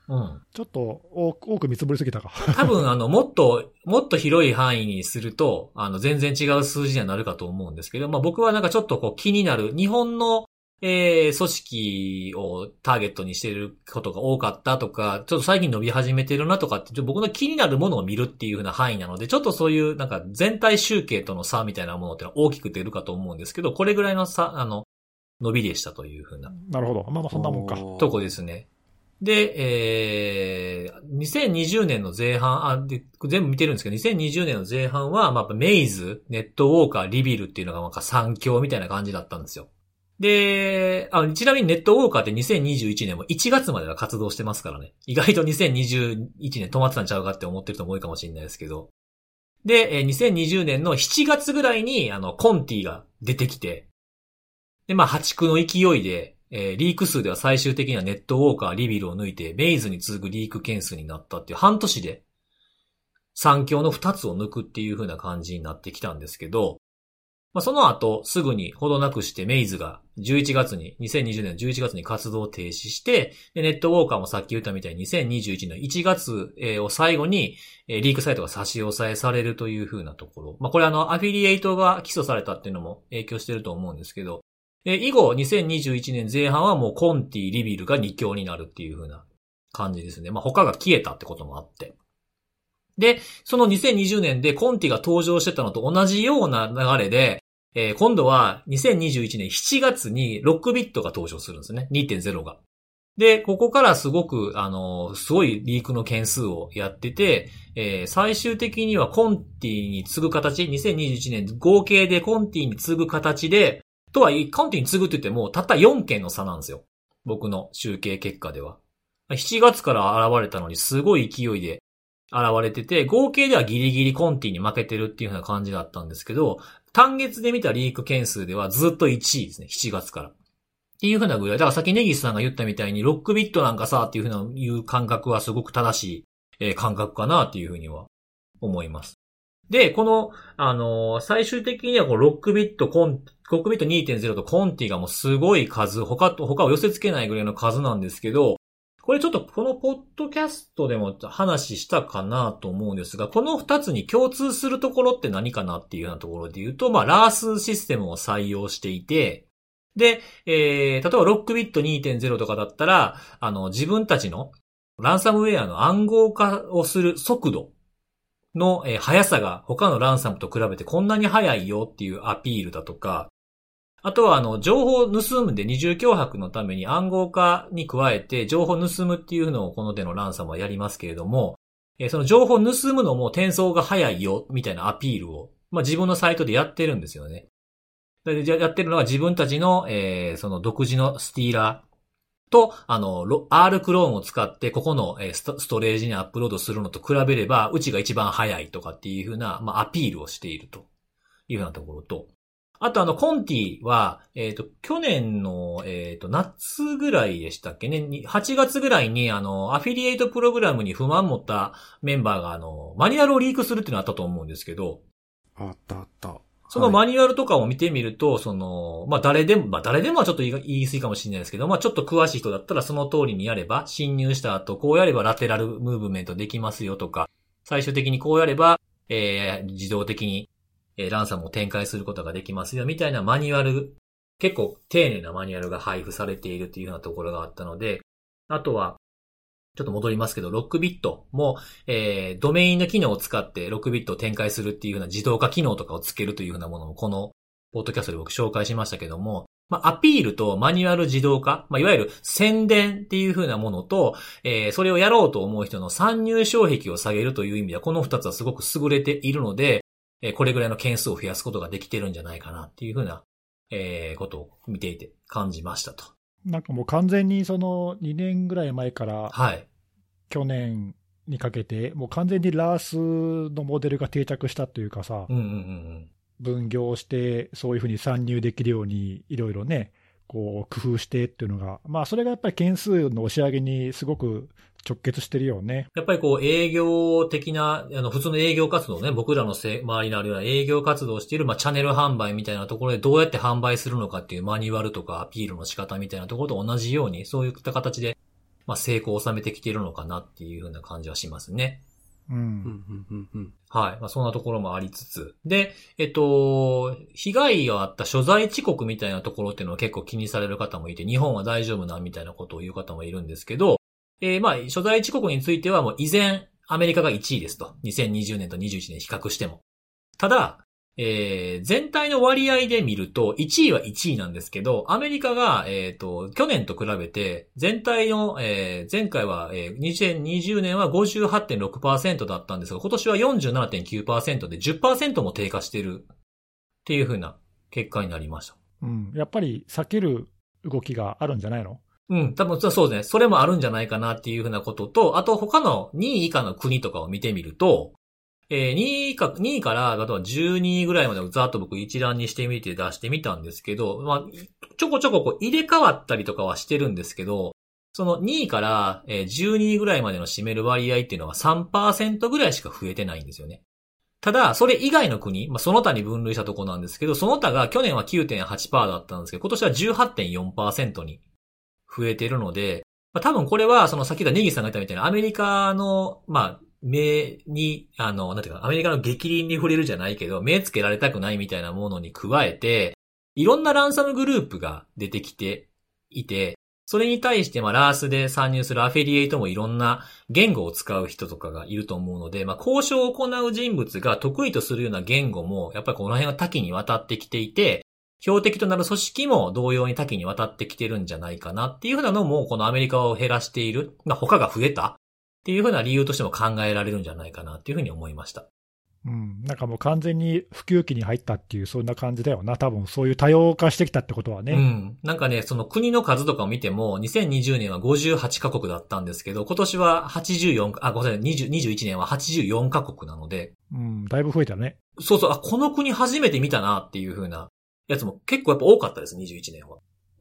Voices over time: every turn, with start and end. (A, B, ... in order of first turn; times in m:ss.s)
0:00.1-0:00.4 A
0:00.5-0:02.8 B
0:02.4-0:24.9 A
0:25.4-0:26.5 A
0:26.5-0:27.8 B
0:27.3-0:28.2 C
0:28.0-0:28.7 A
0:29.2-0:39.7 A
0:40.2-0:48.9 A
0:49.6-0:53.9 A
0:54.9-1:02.2 A
1:03.4-1:06.8 A
1:07.5-1:32.0 A
1:33.0-1:42.6 A
1:43.2-1:58.8 A
1:59.3-2:10.3 A
2:11.0-2:18.1 A
2:18.6-2:19.2 A
2:19.7-2:47.7 A
2:48.5-2:53.3 A
2:54.0-3:07.5 A
3:08.2-3:11.8 A
3:12.5-3:20.9 A
3:21.5-3:35.0 A
3:35.6-3:37.0 C
3:36.7-3:59.0 A
3:59.8-4:26.1 A
4:26.5-4:29.3 B
4:29.3-4:29.7 A
4:30.3-4:35.3 B
4:35.3-4:36.1 A
4:36.4-4:45.9 B
4:46.0-4:58.2 A
4:58.7-5:01.8 A
5:02.3-5:02.7 B
5:02.6-5:03.5 C
5:03.7-5:19.6 A
5:20.2-5:36.1 A
5:36.8-5:38.6 A
5:38.8-5:41.8 B
5:42.1-5:48.0 A
5:48.5-6:03.6 A
6:04.2-6:11.2 A
6:11.9-6:48.5 A
6:49.0-6:54.7 B
6:54.5-7:03.5 A
7:03.7-7:04.8 B
7:05.0-7:09.8 A